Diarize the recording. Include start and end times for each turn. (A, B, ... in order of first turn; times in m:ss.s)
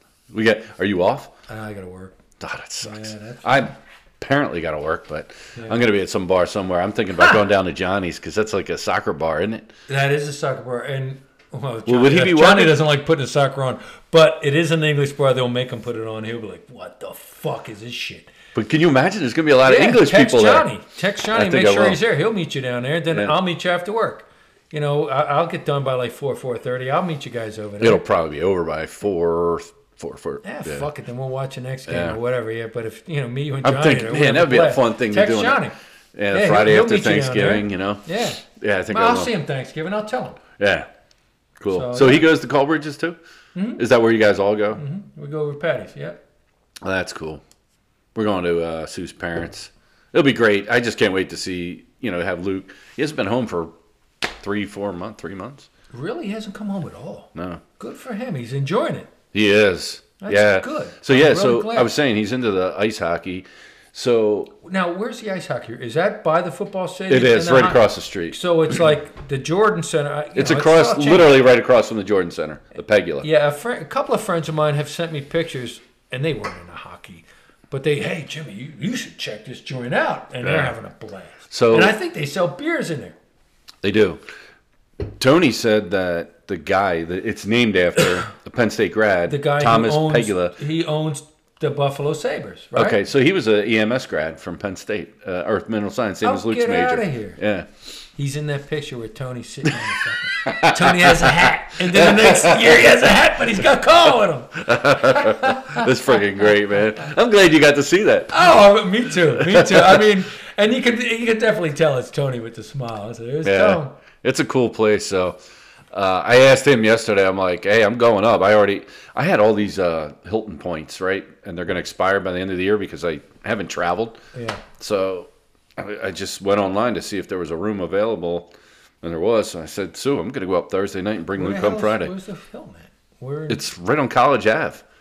0:00.3-0:01.3 A
0:01.5-0:02.2 B
0:02.4-0:09.7 A
0:02.8-0:03.7 B
0:05.6-0:05.8 B
0:09.9-0:18.3 B
0:11.9-0:12.8 A
0:18.5-0:20.7 A
0:19.6-0:28.0 B
0:21.3-0:22.0 A
0:23.1-0:23.4 A
0:27.8-0:30.9 A
0:30.4-0:35.7 B
0:31.9-0:32.2 A
0:33.6-0:35.6 A
0:36.1-0:39.3 A
0:36.3-0:40.4 B
0:40.6-0:40.9 A
0:41.6-0:43.2 A
0:41.7-0:42.3 B
0:43.5-0:43.8 B
0:43.8-0:44.8 A
0:44.7-0:46.2 B
0:46.8-0:47.4 A
0:48.1-0:53.7 A
0:54.2-0:55.7 A
0:55.9-0:59.1 B
0:57.3-0:57.6 A
0:59.3-1:04.5 A
1:00.2-1:01.9 B
1:04.6-1:11.4 B
1:07.1-1:08.3 A
1:10.3-1:13.3 A
1:13.2-1:23.2 B
1:20.4-1:20.7 A
1:21.5-1:21.9 A
1:23.8-1:24.2 A
1:25.0-1:30.6 A
1:29.3-1:33.0 B
1:32.7-1:37.7 A
1:36.2-1:37.4 B
1:38.2-1:46.2 B
1:40.4-1:42.9 A
1:44.6-1:48.6 A
1:48.3-1:53.9 B
1:49.3-1:50.1 A
1:53.4-1:55.4 A
1:55.9-2:04.2 A
2:04.3-2:04.6 B
2:04.8-2:12.1 A
2:11.4-2:13.6 B
2:13.5-2:14.8 A